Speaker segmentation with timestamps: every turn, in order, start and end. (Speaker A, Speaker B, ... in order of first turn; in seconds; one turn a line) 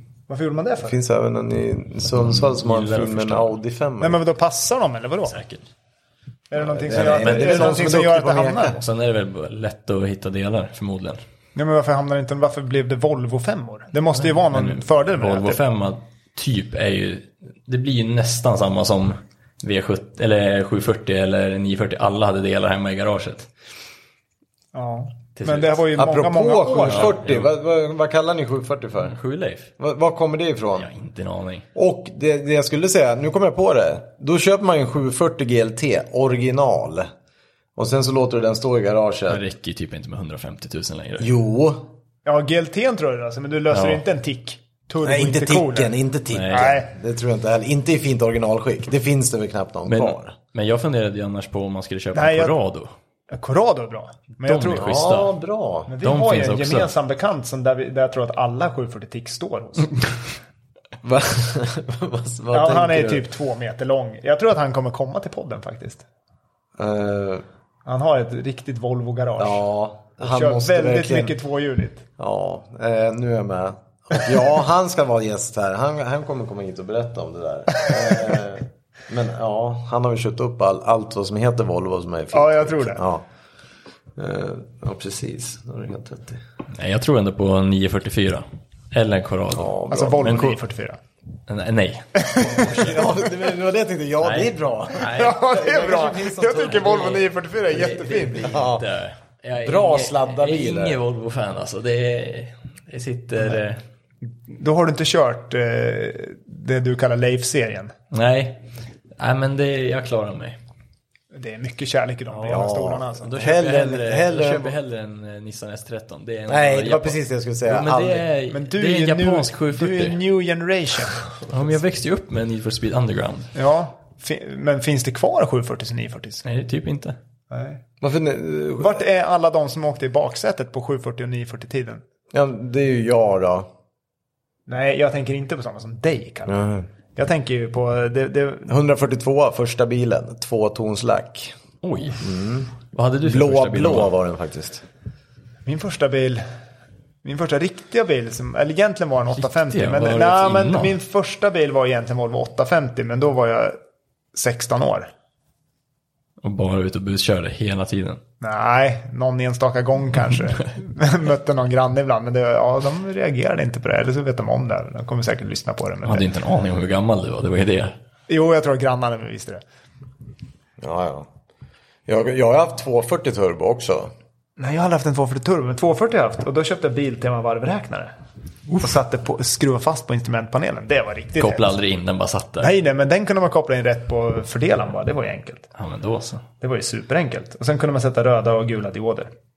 Speaker A: 0.3-0.9
Speaker B: 0.8-4.2
Speaker C: 2.1-3.5
Speaker A: 4.0-5.4
Speaker C: 5.3-5.6
Speaker A: 6.5-8.8
Speaker B: 6.6-8.8
Speaker C: 6.9-7.8
Speaker C: 8.8-11.2
Speaker A: 11.5-15.6
Speaker C: 14.2-23.5
Speaker A: 24.7-27.1
Speaker C: 25.4-25.8
Speaker B: 25.9-29.1
Speaker C: 26.9-27.5
Speaker C: 29.0-29.7
Speaker B: 29.8-30.9
Speaker C: 30.8-31.6
Speaker B: 31.7-37.1
Speaker B: 37.8-39.4
Speaker C: 39.3-41.3
Speaker B: 41.2-41.9
Speaker A: 42.2-45.9
Speaker C: 43.7-44.0
Speaker B: 45.0-50.3
Speaker C: 46.3-46.8
Speaker A: 46.5-46.9
Speaker C: 49.9-52.9
Speaker A: 52.1-52.6
Speaker A: 53.3-55.0
Speaker C: 54.4-55.3
Speaker B: 54.8-55.9
Speaker A: 55.9-60.2
Speaker C: 56.0-56.9
Speaker B: 61.0-63.2
Speaker A: 62.5-66.0
Speaker B: 66.8-67.4
Speaker A: 67.8-69.6
Speaker B: 69.4-71.3
Speaker A: 70.2-72.0
Speaker B: 72.2-83.2
Speaker A: 77.9-78.3
Speaker A: 82.3-83.0
Speaker B: 84.2-86.4
Speaker C: 86.7-90.5
Speaker B: 89.5-90.5
Speaker A: 89.9-91.0
Speaker C: 91.5-93.2
Speaker A: 92.2-92.8
Speaker B: 92.5-98.8
Speaker C: 94.2-95.4
Speaker A: 95.0-98.6
Speaker C: 96.6-103.8
Speaker B: 99.6-101.0
Speaker A: 104.4-107.9
Speaker C: 108.1-108.6
Speaker C: 109.2-110.6
Speaker A: 111.3-113.4
Speaker C: 112.3-120.2
Speaker B: 112.5-114.7
Speaker B: 116.5-118.3
Speaker A: 118.5-121.3
Speaker C: 121.4-123.5
Speaker A: 123.5-126.4
Speaker C: 126.4-127.2
Speaker A: 127.5-127.8
Speaker B: 128.0-129.0
Speaker A: 128.8-132.0
Speaker B: 132.3-133.7
Speaker A: 134.7-136.6
Speaker B: 136.5-136.9
Speaker A: 137.1-138.7
Speaker B: 138.7-141.5
Speaker C: 141.8-142.2
Speaker B: 142.2-144.8
Speaker C: 142.9-144.1
Speaker A: 145.7-146.4
Speaker A: 147.2-153.8
Speaker C: 149.4-150.9
Speaker A: 154.3-155.1
Speaker C: 156.4-158.2
Speaker A: 158.4-166.3
Speaker C: 166.0-167.9
Speaker A: 168.3-169.6
Speaker B: 170.8-171.3
Speaker B: 172.1-174.1
Speaker A: 174.6-178.1
Speaker A: 178.8-181.7
Speaker C: 181.4-182.7
Speaker A: 182.6-185.7
Speaker C: 185.8-186.4
Speaker A: 186.6-189.3